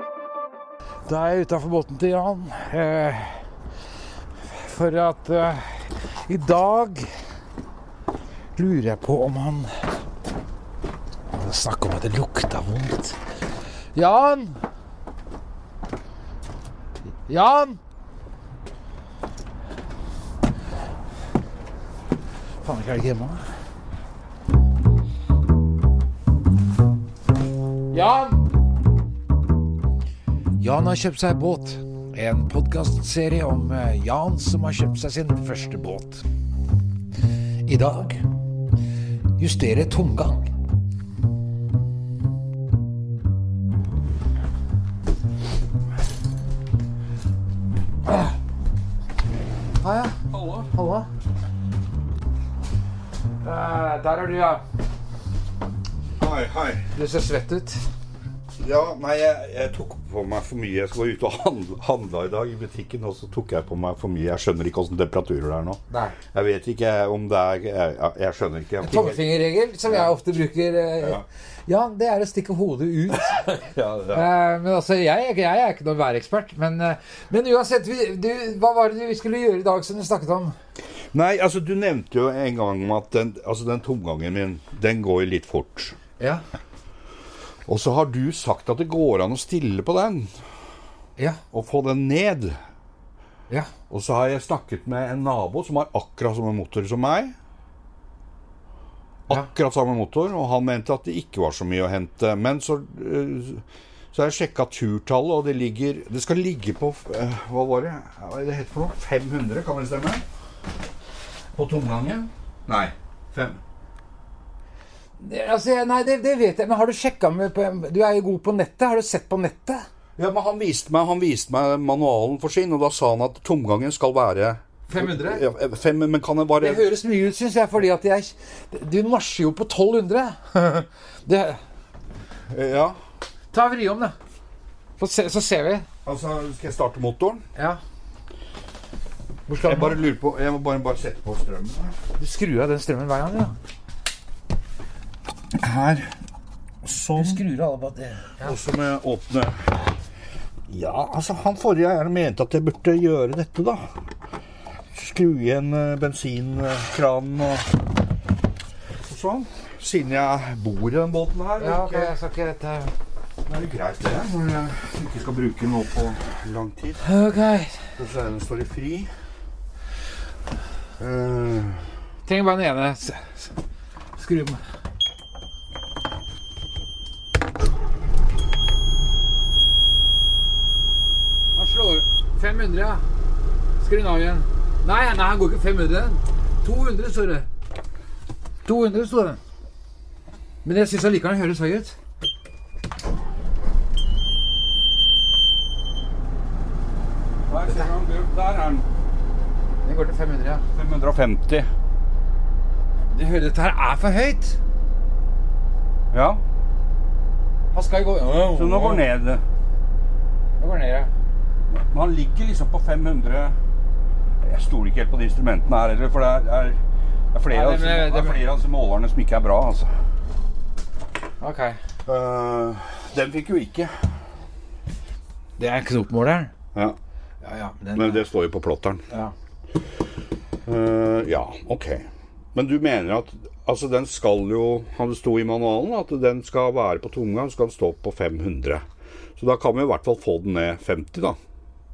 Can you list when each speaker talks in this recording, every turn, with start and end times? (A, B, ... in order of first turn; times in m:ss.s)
0:01.1-0:03.4 A
0:04.5-0:05.7 A
0:06.3-0:07.1 A
0:08.6-0:09.7 A
0:11.3-0:13.2 A
0:14.0-0:14.6 A
0:17.3-0:17.8 A
0:22.6-0:23.4 A
0:27.9-0:28.4 A
0:30.6-0:36.2 A
0:37.7-0:38.2 A
0:39.4-0:40.5 A
0:48.1-0:48.3 A
0:49.8-0:50.2 A
0:50.3-0:50.7 B
0:50.7-0:51.1 A
0:53.4-0:54.6 A
0:56.2-0:56.8 B
0:57.0-0:57.8 A
0:58.6-1:05.8 B
1:05.9-1:06.2 A
1:06.3-1:09.3 B
1:08.8-1:20.6 A
1:09.8-1:10.1 B
1:13.3-1:14.3 B
1:21.1-1:26.0 B
1:27.7-1:30.3 B
1:31.5-1:32.6 B
1:33.9-1:37.3 B
1:39.3-1:50.2 B
1:51.6-1:53.6 B
1:55.2-1:59.8 A
2:00.2-2:06.9 B
2:04.9-2:05.4 A
2:06.6-2:11.6 A
2:12.5-2:13.0 B
2:13.5-2:14.2 A
2:15.0-2:15.9 A
2:16.0-2:17.4 B
2:19.5-2:20.0 A
2:19.6-2:21.9 B
2:22.2-2:23.5 A
2:25.5-2:26.1 B
2:26.8-2:27.4 B
2:27.2-2:28.5 A
2:28.4-2:29.7 B
2:30.7-2:33.9 B
2:34.9-2:37.7 B
2:39.0-2:42.2 B
2:41.6-2:42.9 A
2:43.5-2:47.0 B
2:47.0-2:47.9 A
2:48.0-2:49.1 B
2:51.0-2:51.9 B
2:52.3-2:53.5 A
2:54.2-2:54.6 A
3:01.6-3:03.0 A
3:03.8-3:07.5 A
3:08.6-3:09.4 A
3:10.6-3:11.9 A
3:17.5-3:18.9 B
3:19.8-3:20.6 A
3:20.8-3:21.7 B
3:23.1-3:24.6 A
3:26.1-3:26.4 B
3:27.7-3:29.1 A
3:28.6-3:29.4 B
3:30.6-3:31.1 A
3:31.7-3:33.6 B
3:34.4-3:36.8 B
3:37.3-3:39.9 B
3:37.5-3:38.4 A
3:41.4-3:41.8 A
3:42.1-3:44.1 B
3:45.6-3:46.5 A
3:47.4-3:48.3 A
3:48.0-3:49.0 B
3:50.7-3:58.8 B
3:59.4-4:01.4 B